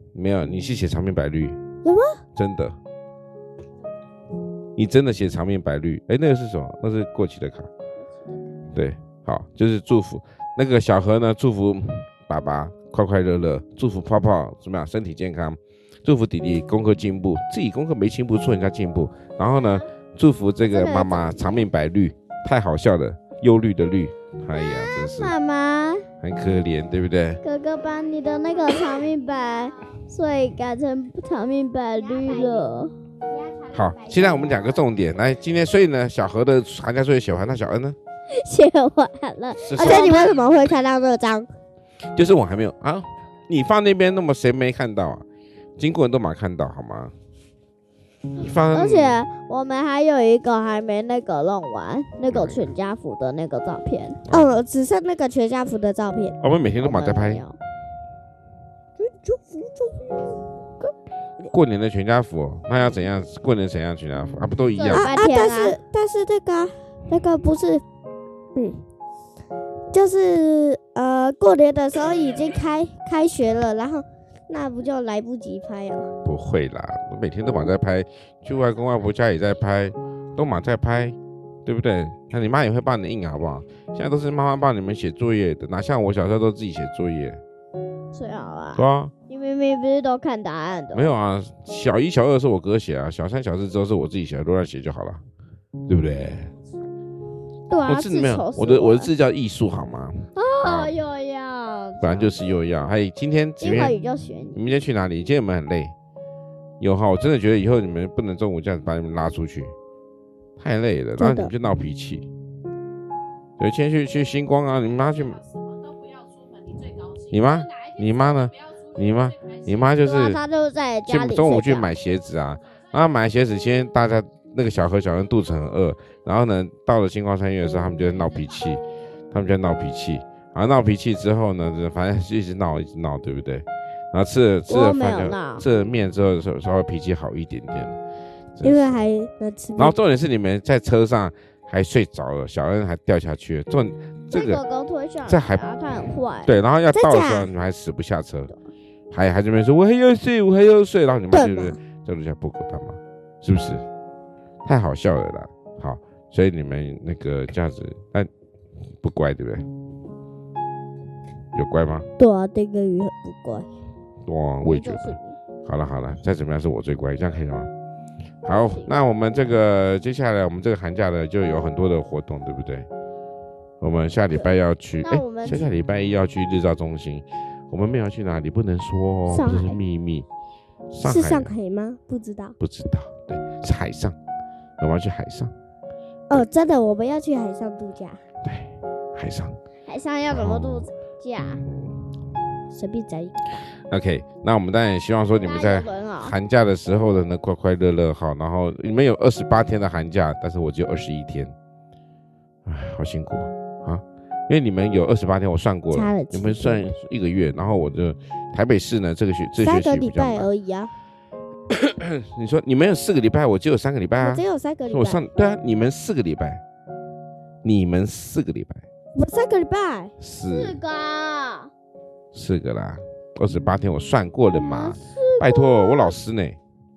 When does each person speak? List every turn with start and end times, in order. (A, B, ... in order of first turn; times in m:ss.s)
0:00.1-0:01.6 A
0:01.8-0:02.2 B
0:02.4-0:02.8 A
0:04.8-0:07.7 A
0:08.7-0:25.3 A
0:20.6-0:21.6 C
0:24.6-0:26.0 C
0:26.2-0:27.4 A
0:27.4-0:32.9 C
0:32.0-0:32.7 B
0:33.3-0:34.8 B
0:33.7-0:38.0 A
0:38.3-0:40.4 C
0:39.6-0:40.3 A
0:39.7-0:41.5 B
0:42.2-0:45.2 A
0:45.8-0:47.1 A
0:48.4-0:49.2 A
0:48.7-0:54.2 C
0:52.3-0:52.7 A
0:54.3-0:54.5 A
0:54.3-0:56.4 B
0:56.4-0:57.4 A
0:56.8-0:57.6 C
0:59.0-1:00.9 B
1:01.5-1:05.1 A
1:04.8-1:05.8 C
1:04.9-1:07.8 B
1:08.5-1:08.8 B
1:09.9-1:16.1 B
1:16.2-1:27.4 A
1:28.1-1:31.1 C
1:28.8-1:29.1 A
1:30.9-1:35.2 A
1:35.9-1:36.5 A
1:37.7-1:39.1 C
1:37.8-1:40.9 A
1:40.4-1:42.3 C
1:42.0-1:44.0 A
1:43.6-1:44.6 C
1:44.6-1:45.9 A
1:46.8-1:49.7 A
1:50.6-1:52.3 A
1:51.2-1:51.5 B
1:53.6-1:55.4 A
1:57.2-2:00.4 A
2:00.0-2:01.9 C
2:01.1-2:18.0 A
2:14.7-2:15.6 C
2:18.5-2:19.0 A
2:18.6-2:19.9 B
2:19.8-2:24.6 A
2:24.3-2:26.5 C
2:25.2-2:25.6 A
2:26.4-2:28.5 A
2:26.9-2:27.5 B
2:29.1-2:33.8 A
2:31.3-2:31.8 B
2:34.6-2:38.3 A
2:39.0-2:39.6 A
2:41.5-2:42.1 A
2:42.2-2:43.7 B
2:44.2-2:47.7 A
2:44.6-2:45.4 C
2:48.4-2:52.9 A
2:48.6-2:48.9 C
2:53.8-3:00.2 A
2:55.0-2:55.7 C
2:59.3-2:59.7 B
3:00.9-3:01.5 A
3:01.0-3:02.5 B
3:02.6-3:04.2 A
3:04.8-3:05.5 A
3:06.3-3:08.2 B
3:08.4-3:09.5 A
3:09.8-3:11.6 C
3:10.3-3:10.9 A
3:11.6-3:12.1 A
3:12.7-3:13.6 B
3:13.8-3:21.5 A
3:15.4-3:16.3 C
3:22.6-3:30.5 A
3:25.9-3:26.9 B
3:29.6-3:30.9 B
3:31.7-3:36.6 A
3:34.2-3:35.5 B
3:37.6-3:38.8 A
3:39.1-3:40.1 B
3:40.2-3:40.8 A
3:40.5-3:41.7 C
3:42.3-3:46.6 A
3:44.5-3:46.2 C